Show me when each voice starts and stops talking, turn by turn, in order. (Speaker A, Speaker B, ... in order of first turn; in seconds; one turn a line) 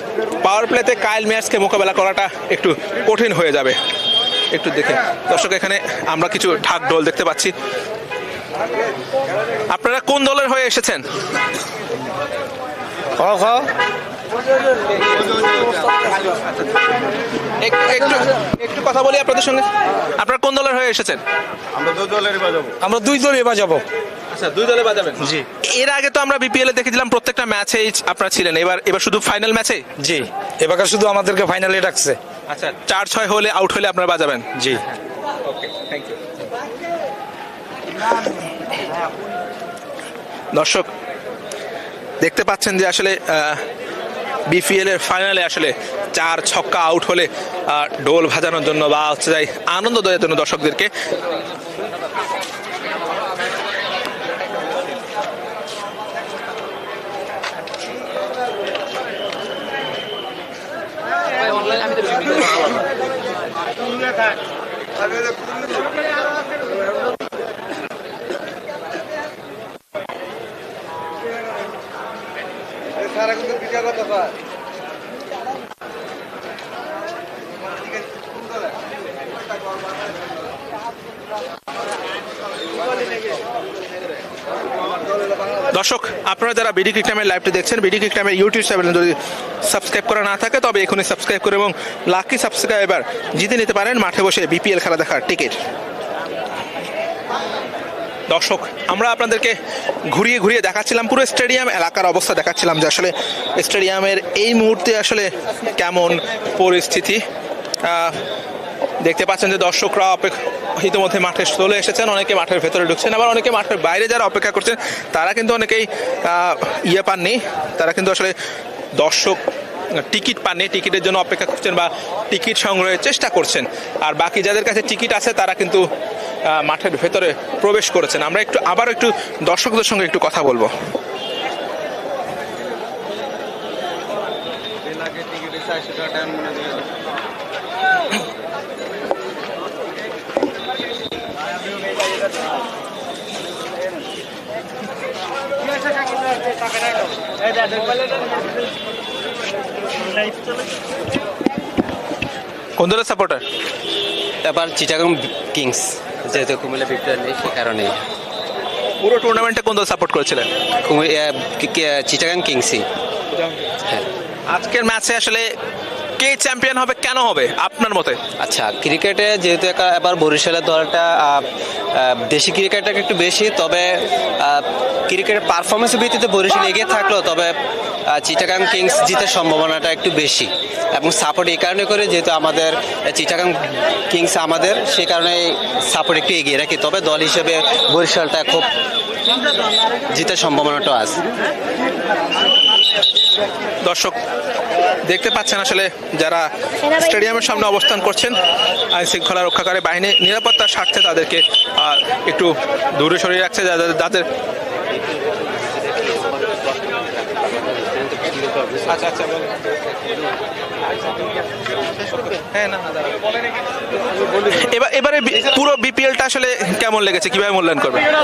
Speaker A: 0.4-3.8
Speaker A: 4.5-7.5
Speaker A: 9.7-11.0
Speaker B: 13.2-13.7
Speaker A: 17.6-19.7
Speaker A: 20.2-21.2
Speaker B: 22.8-23.8
Speaker A: 24.3-29.8
Speaker B: 30.6-32.2
Speaker A: 32.5-34.5
Speaker A: 35.5-36.2
Speaker A: 40.5-40.9
Speaker A: 42.2-43.6
Speaker A: 44.5-50.9
Speaker A: 85.7-95.6
Speaker A: 98.3-99.5
Speaker A: 100.1-107.2
Speaker A: 107.8-108.2
Speaker A: 109.0-118.3
Speaker A: 119.0-119.4
Speaker A: 119.9-125.8
Speaker A: 126.5-130.7
Speaker A: 152.8-153.4
Speaker C: 154.4-158.0
Speaker A: 159.0-160.5
Speaker C: 160.8-162.8
Speaker A: 164.5-165.5
Speaker A: 166.2-168.2
Speaker C: 168.4-177.5
Speaker C: 178.1-188.7
Speaker C: 190.1-191.2
Speaker A: 193.8-194.2
Speaker A: 195.1-198.4
Speaker A: 198.9-204.3
Speaker A: 208.9-209.5
Speaker A: 212.0-213.2
Speaker A: 214.4-218.0